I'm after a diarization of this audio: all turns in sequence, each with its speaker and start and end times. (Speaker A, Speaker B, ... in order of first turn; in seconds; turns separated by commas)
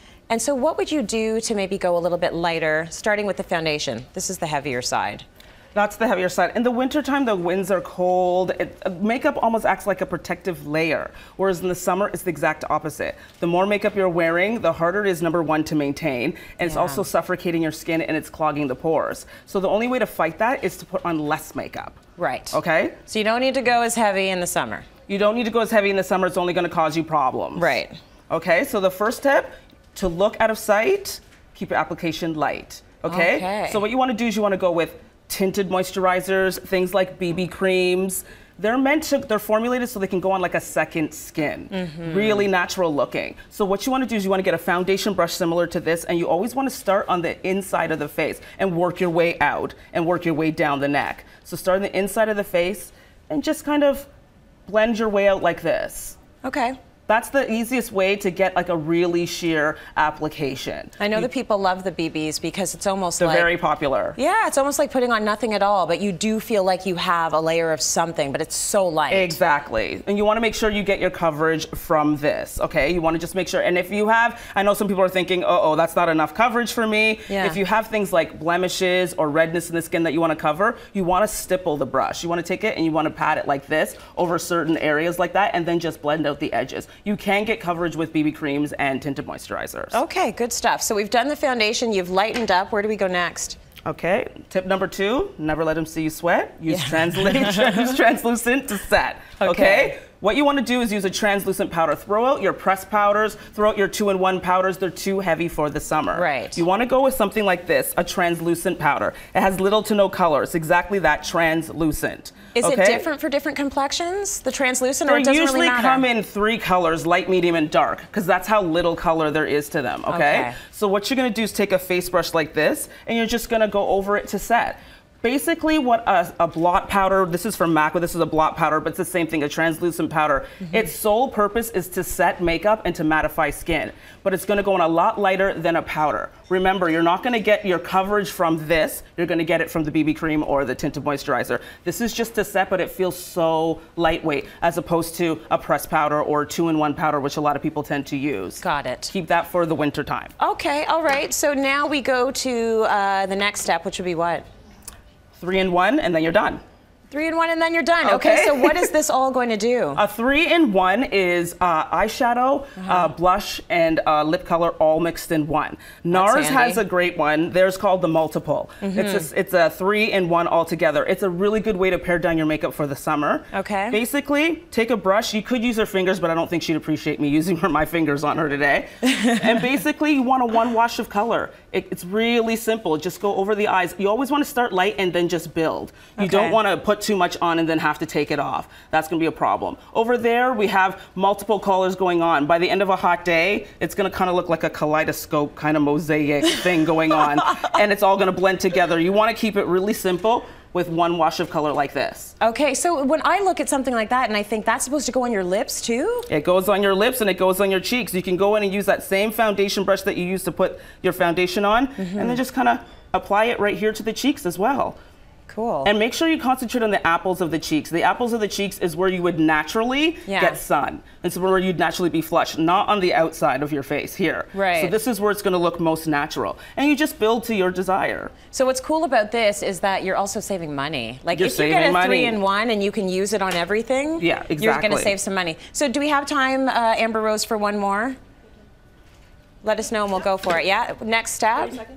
Speaker A: 0.3-5.2, Speaker B: 5.8-22.0, Speaker A: 16.6-17.0, Speaker A: 22.2-24.9, Speaker B: 22.5-23.0, Speaker B: 25.1-27.8, Speaker A: 27.6-28.0, Speaker B: 28.3-54.1, Speaker A: 33.1-33.8, Speaker A: 41.7-42.5, Speaker B: 54.7-56.2, Speaker A: 56.4-56.8, Speaker B: 57.1-61.3, Speaker A: 61.0-63.5, Speaker B: 63.2-64.2, Speaker A: 64.2-69.4, Speaker B: 69.1-90.0, Speaker A: 77.3-77.6, Speaker A: 89.9-93.6, Speaker B: 93.9-113.1, Speaker A: 96.7-97.9, Speaker A: 99.4-100.0, Speaker A: 106.1-106.6, Speaker A: 112.6-116.0, Speaker B: 115.1-150.3, Speaker A: 120.1-120.6, Speaker A: 148.6-149.1, Speaker A: 150.4-154.4, Speaker B: 155.4-156.6, Speaker A: 157.1-160.0, Speaker B: 158.0-158.9, Speaker B: 160.0-202.3, Speaker A: 162.8-163.1, Speaker A: 166.1-166.8, Speaker A: 168.8-169.3, Speaker A: 173.5-174.0, Speaker A: 186.2-186.6, Speaker A: 202.4-206.3, Speaker B: 206.3-215.0, Speaker A: 212.0-212.4, Speaker A: 215.5-215.9, Speaker B: 215.8-228.3, Speaker A: 220.3-220.6, Speaker A: 224.5-224.9, Speaker A: 228.5-238.2, Speaker B: 231.3-232.4, Speaker B: 234.2-235.1, Speaker A: 239.6-241.8